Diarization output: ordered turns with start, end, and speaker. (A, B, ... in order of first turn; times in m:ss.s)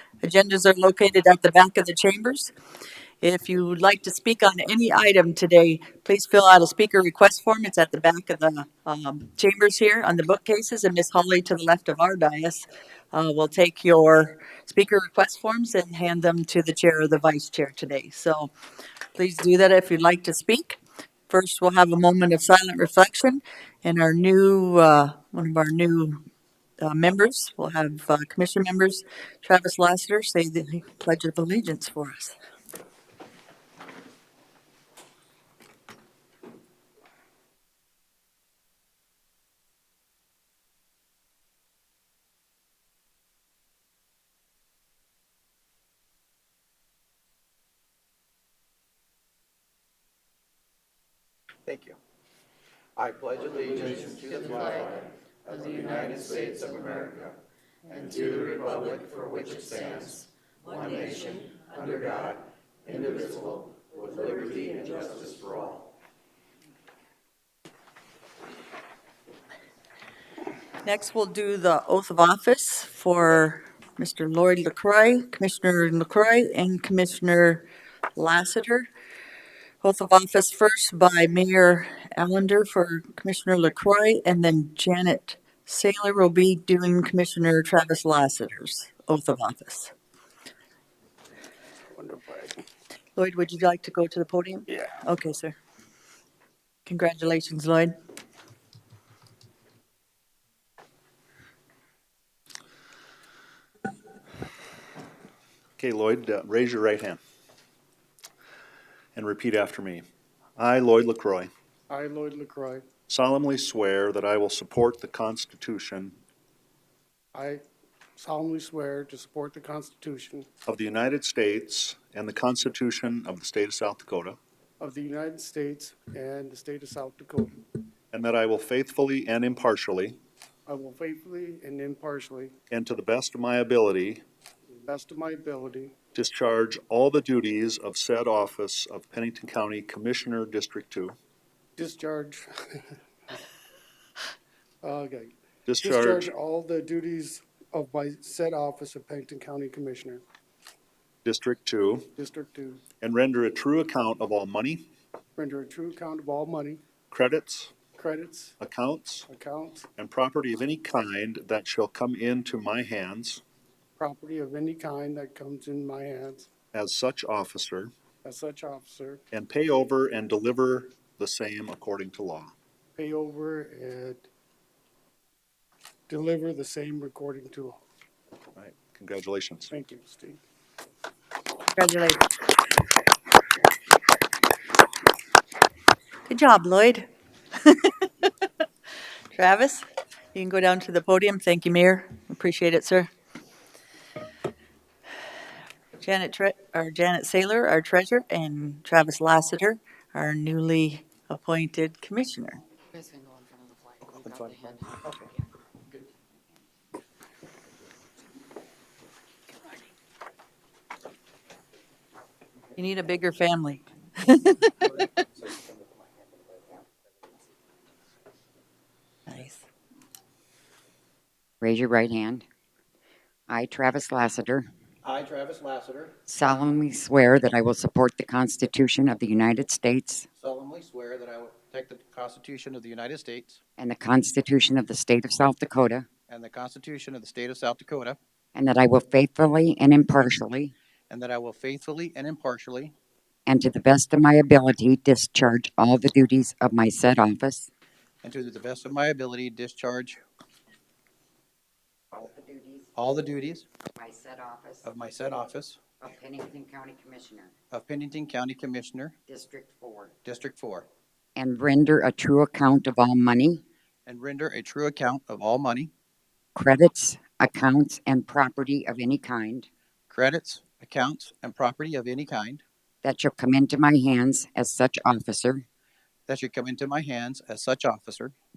0:00.2-0:02.5 A
0:03.2-0:18.5 A
0:19.2-0:26.2 A
0:26.8-0:32.4 A
0:51.7-0:52.0 B
0:53.0-1:05.9 B
1:10.8-1:18.9 A
1:19.8-1:29.9 A
1:31.9-1:32.6 C
1:33.2-1:35.6 A
1:36.9-1:38.0 A
1:45.8-1:47.2 D
1:49.2-1:50.0 D
1:50.6-1:51.5 D
1:51.9-1:52.9 C
1:53.1-1:56.2 D
1:57.3-1:57.6 C
1:58.2-2:00.5 C
2:00.7-2:04.4 D
2:04.8-2:07.6 C
2:08.1-2:10.2 D
2:10.7-2:12.6 C
2:12.7-2:14.2 D
2:14.8-2:16.0 C
2:16.2-2:21.2 D
2:21.8-2:23.4 C
2:24.8-2:30.2 C
2:25.7-2:26.3 D
2:31.2-2:32.1 D
2:32.2-2:32.8 C
2:33.0-2:34.9 D
2:35.4-2:36.8 C
2:37.1-2:37.7 D
2:37.9-2:38.6 C
2:38.6-2:39.3 D
2:39.3-2:39.9 C
2:40.0-2:43.4 D
2:44.0-2:46.5 C
2:46.7-2:47.9 D
2:48.2-2:49.2 C
2:49.3-2:52.5 D
2:53.0-2:54.3 C
2:56.1-2:57.8 C
2:58.6-2:59.7 D
2:59.7-3:00.4 C
3:01.7-3:02.3 A
3:06.3-3:07.1 A
3:07.6-3:07.9 A
3:09.3-3:13.1 A
3:16.0-3:22.6 A
3:22.9-3:24.1 E
3:24.1-3:25.2 B
3:32.8-3:34.7 A
3:35.4-3:36.8 B
3:39.3-3:39.6 A
3:41.6-3:42.4 E
3:43.5-3:44.7 E
3:45.0-3:46.2 B
3:46.3-3:50.3 E
3:50.4-3:53.6 B
3:53.8-3:56.1 E
3:56.3-3:58.2 B
3:58.6-4:00.7 E
4:01.1-4:02.9 B
4:03.5-4:07.7 E
4:08.2-4:10.2 B
4:12.1-4:12.9 E
4:13.0-4:13.7 B
4:13.9-4:14.8 E
4:14.8-4:15.8 B
4:16.0-4:17.5 E
4:17.7-4:19.1 B
4:19.3-4:20.1 E
4:20.2-4:20.9 B
4:21.4-4:23.6 E
4:24.1-4:25.9 B
4:26.6-4:29.7 E
4:30.1-4:32.6 B
4:33.0-4:35.6 E
4:36.3-4:38.3 B